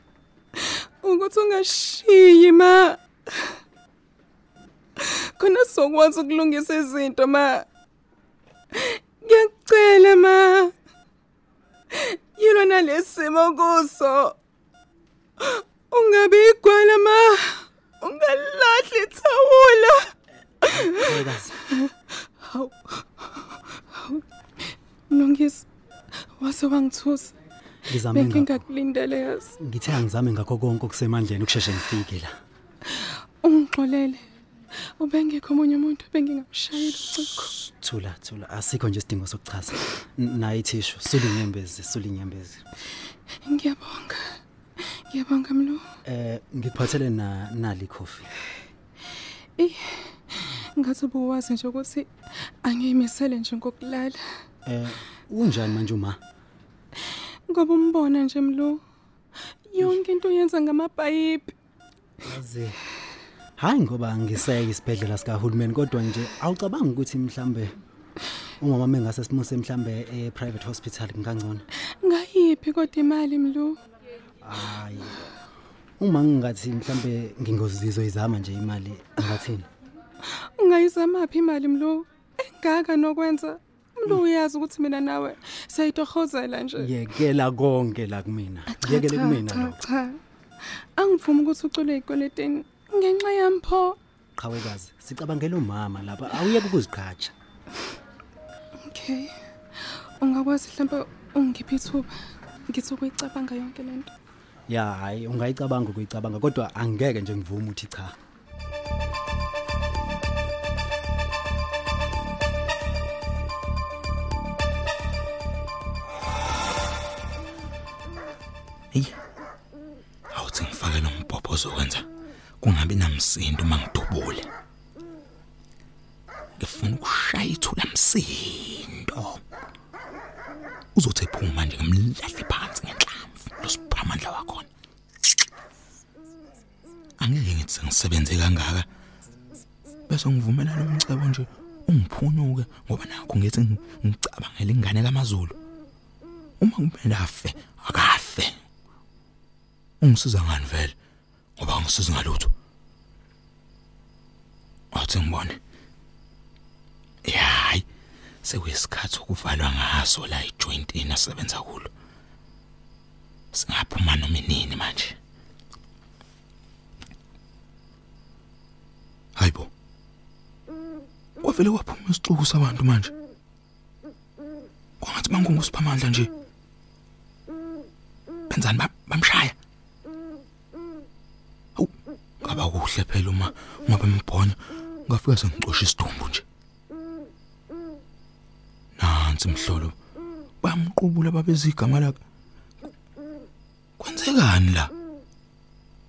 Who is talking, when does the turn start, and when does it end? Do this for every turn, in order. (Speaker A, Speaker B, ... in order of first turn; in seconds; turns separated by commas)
Speaker A: 0.6-3.0, Speaker A: 5.0-7.7, Speaker A: 8.7-10.7, Speaker A: 11.9-14.3, Speaker A: 15.4-20.1, Speaker B: 20.7-21.6, Speaker A: 22.4-24.2, Speaker A: 25.1-25.7, Speaker A: 26.4-27.3, Speaker B: 27.9-28.6, Speaker A: 28.1-29.5, Speaker B: 29.6-32.3, Speaker A: 33.0-34.2, Speaker A: 35.0-37.5, Speaker B: 37.6-42.6, Speaker A: 43.4-45.8, Speaker B: 46.0-48.2, Speaker A: 49.6-52.1, Speaker A: 52.6-54.2, Speaker B: 54.6-56.2, Speaker A: 57.5-58.8, Speaker A: 59.7-61.5, Speaker B: 62.2-62.8, Speaker B: 63.6-67.7, Speaker B: 68.6-71.6, Speaker A: 72.0-73.8, Speaker B: 74.4-75.2, Speaker B: 76.0-79.7, Speaker A: 80.4-86.9, Speaker B: 86.8-89.8, Speaker A: 88.7-90.2, Speaker A: 91.0-94.0, Speaker B: 94.4-97.3, Speaker A: 98.8-102.1, Speaker A: 102.7-104.1, Speaker B: 104.7-108.1, Speaker C: 118.9-119.2, Speaker C: 120.3-122.0, Speaker C: 122.6-124.5, Speaker C: 126.6-129.4, Speaker C: 130.9-134.7, Speaker C: 137.2-138.9, Speaker C: 140.1-145.6, Speaker C: 146.6-148.6, Speaker C: 150.0-150.9, Speaker C: 151.6-152.5, Speaker C: 154.9-155.6, Speaker C: 157.2-157.8, Speaker C: 158.4-161.9, Speaker C: 163.5-165.2, Speaker C: 169.4-169.7, Speaker C: 171.4-173.1, Speaker C: 175.0-176.3, Speaker C: 178.5-179.5, Speaker C: 181.8-186.4, Speaker C: 189.0-189.9, Speaker C: 190.6-192.2, Speaker C: 194.0-194.9